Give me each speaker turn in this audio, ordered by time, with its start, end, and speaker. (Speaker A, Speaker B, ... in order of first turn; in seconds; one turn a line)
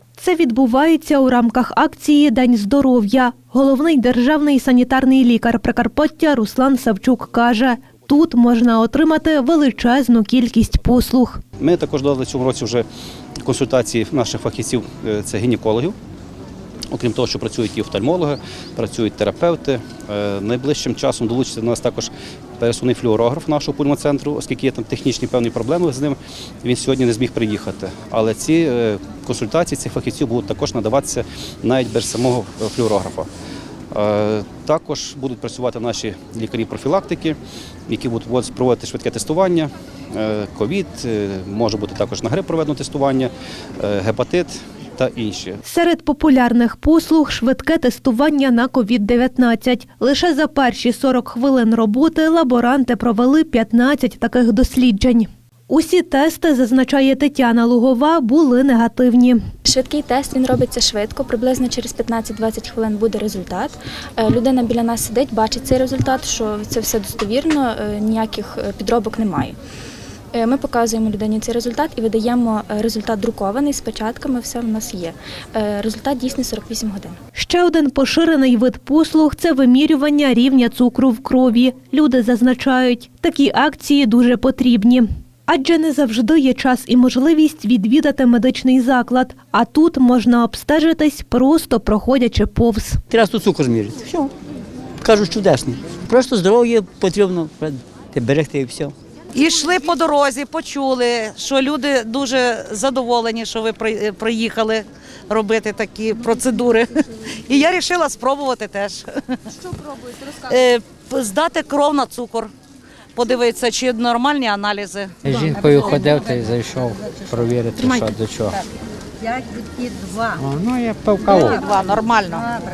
Speaker A: 0.2-11.4
Speaker B: 11.6-12.8
Speaker B: 13.4-15.9
Speaker B: 16.9-33.3
Speaker B: 33.9-37.4
Speaker B: 37.9-45.6
Speaker A: 45.6-59.4
Speaker C: 59.6-69.5
Speaker C: 70.3-77.2
Speaker A: 77.3-93.0
Speaker D: 93.1-94.3
Speaker D: 95.0-98.9
Speaker E: 99.3-109.7
Speaker E: 110.3-112.5
Speaker E: 113.1-115.2
Speaker F: 115.3-118.6
Speaker F: 120.4-121.5
Speaker E: 121.3-122.5